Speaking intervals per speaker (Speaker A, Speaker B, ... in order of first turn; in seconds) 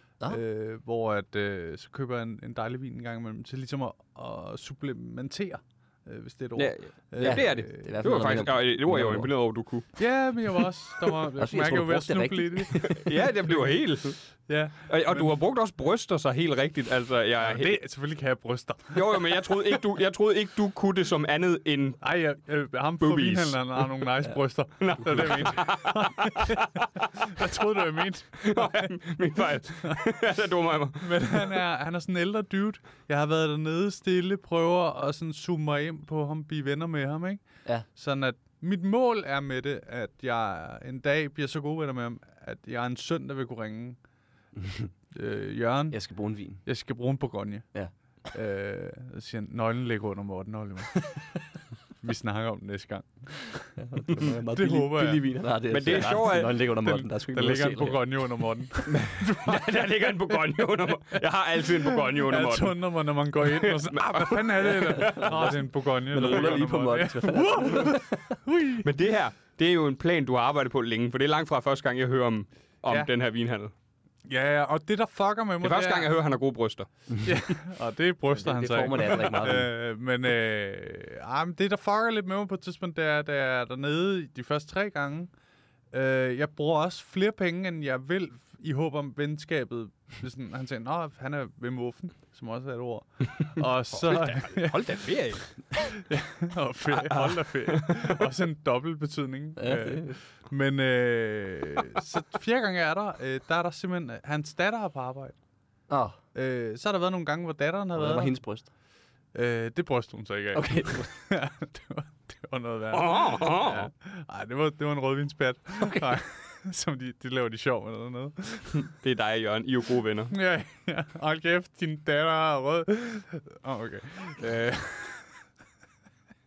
Speaker A: 0.3-8.3, 10.0-13.7, 14.5-15.3, 17.4-19.4, 22.0-29.1, 31.0-44.0, 45.1-55.3, 55.9-61.2, 61.8-68.9, 74.3-76.1, 77.2-85.3, 85.9-105.4, 106.3-108.7, 109.3-118.9, 120.3-125.3
Speaker B: 6.6-10.1, 13.0-14.2, 14.8-17.8, 18.9-22.0, 23.0-23.9, 24.8-26.9, 28.4-31.5, 55.7-56.6, 58.9-62.8, 63.4-66.6, 68.8-73.7, 75.6-77.3, 93.9-95.6, 96.9-98.2, 112.9-113.9, 119.0-120.3
Speaker C: 7.2-9.3, 11.4-13.1, 44.6-44.9, 45.9-46.6, 53.8-58.2, 65.1-68.3, 78.3-79.7, 99.6-100.2, 105.9-106.2, 107.9-108.7, 110.5-111.1